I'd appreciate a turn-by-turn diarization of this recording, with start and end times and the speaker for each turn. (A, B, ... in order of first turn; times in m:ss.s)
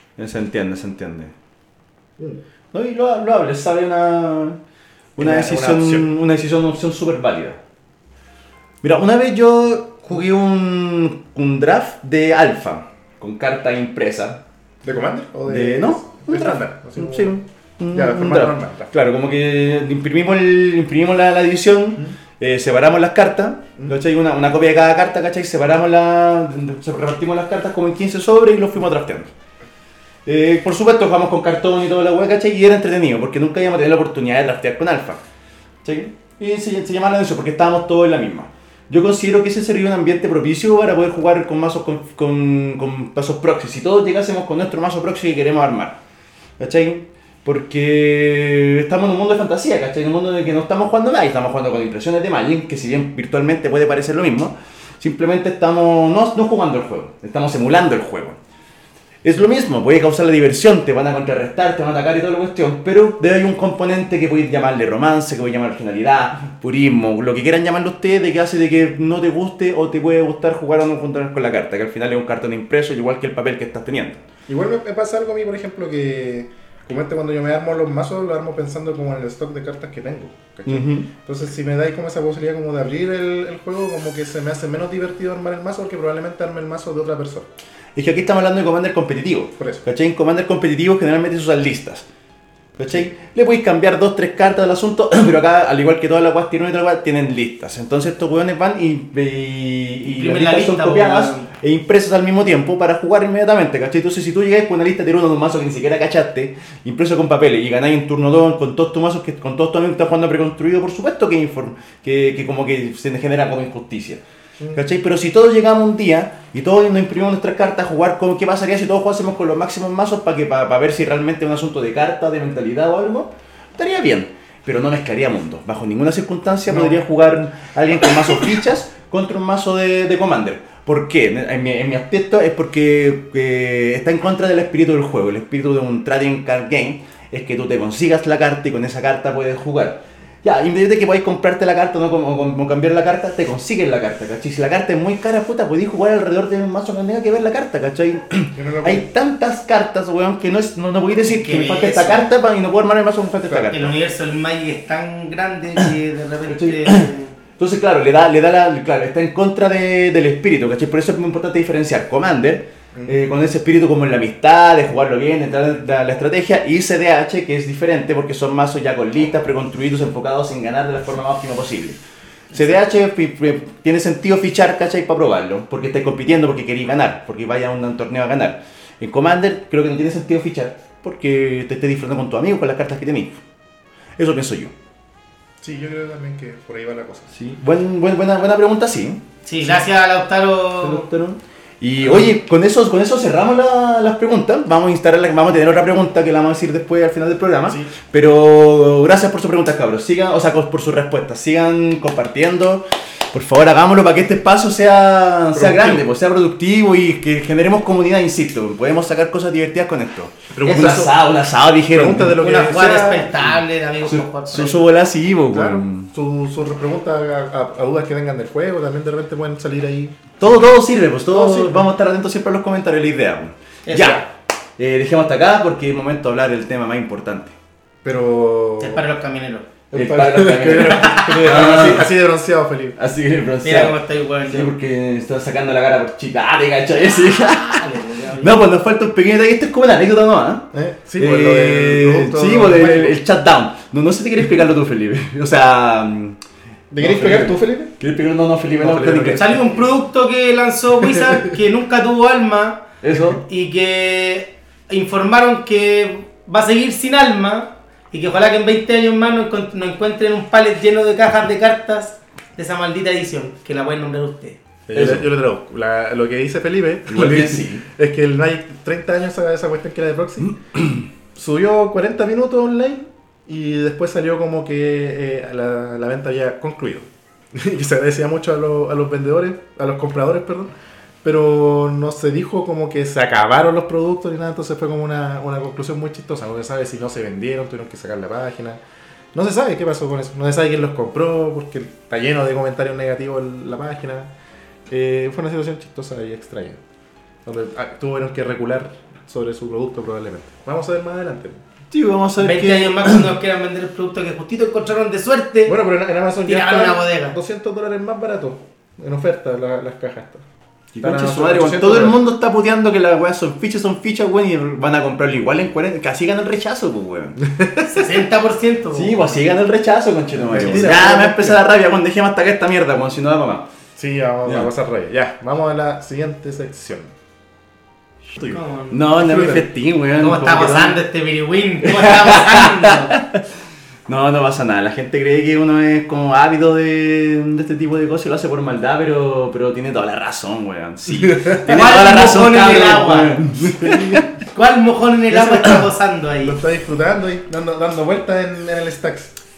0:00.2-0:01.3 A
0:02.7-0:04.6 A
0:05.2-0:07.6 A
0:05.2-0:06.1 B
0:08.8-0:14.4 A
0:14.8-0:17.4 B
0:15.5-0:29.3 A
0:17.9-0:18.9 B
0:30.2-0:35.2 A
0:35.8-0:46.0 A
0:46.6-0:58.4 A
0:59.2-1:14.2 A
1:14.5-1:27.5 B
1:20.6-1:21.1 A
1:27.9-1:32.0 A
1:29.6-1:29.8 B
1:32.8-1:54.2 A
1:40.0-1:41.5 C
1:54.7-2:33.9 A
2:06.7-2:07.0 B
2:28.5-2:29.1 B
2:31.3-2:32.3 C
2:33.5-2:33.8 B
2:33.7-2:37.3 C
2:36.5-2:52.0 A
2:52.5-3:03.4 A
3:04.2-3:04.7 A
3:05.6-3:07.3 B
3:07.4-3:09.2 A
3:09.4-3:11.1 C
3:10.8-3:32.4 A
3:12.0-3:12.3 B
3:17.6-3:17.9 B
3:25.5-3:26.0 B
3:30.5-3:31.1 B
3:31.9-3:33.3 B
3:32.3-3:34.8 C
3:34.0-3:36.1 A
3:35.5-3:40.4 B
3:40.4-3:47.5 A
3:41.3-3:41.8 B
3:43.8-3:44.2 C
3:48.0-3:49.0 B
3:48.8-3:49.7 C
3:49.9-3:52.1 A
3:49.9-3:53.0 B
3:50.8-3:51.4 C
3:53.0-3:57.8 A
3:53.6-3:54.7 C
3:57.2-3:58.6 C
3:58.4-4:06.4 A
4:00.7-4:03.2 B
4:06.9-4:07.9 B
4:07.0-4:09.6 A
4:08.8-4:09.8 B
4:09.3-4:24.6 C
4:11.1-4:11.5 B
4:13.0-4:13.4 A
4:24.9-4:30.6 B
4:24.9-4:25.3 A
4:27.1-4:27.8 A
4:31.3-4:40.7 B
4:41.2-4:48.8 B
4:49.3-4:54.3 B
4:54.9-4:56.8 B
4:57.4-5:01.6 B
5:01.9-5:03.3 A
5:02.4-5:05.8 C
5:05.6-5:10.4 B
5:06.4-5:07.4 C
5:10.9-5:17.4 A
5:11.0-5:12.2 B
5:17.4-5:17.9 B
5:17.8-5:19.4 C
5:18.9-5:23.7 A
5:20.4-5:21.6 B
5:20.5-5:21.2 C
5:24.0-5:27.1 B
5:24.4-5:24.7 A
5:28.4-5:31.0 A
5:28.4-5:29.1 C
5:29.1-5:29.7 B
5:30.2-5:33.1 C
5:31.8-5:33.4 A
5:34.1-5:44.3 A
5:41.2-5:41.6 B
5:41.6-5:43.4 C
5:43.6-5:44.3 B
5:44.5-5:46.6 C
5:45.5-5:45.8 A
5:46.4-5:49.4 B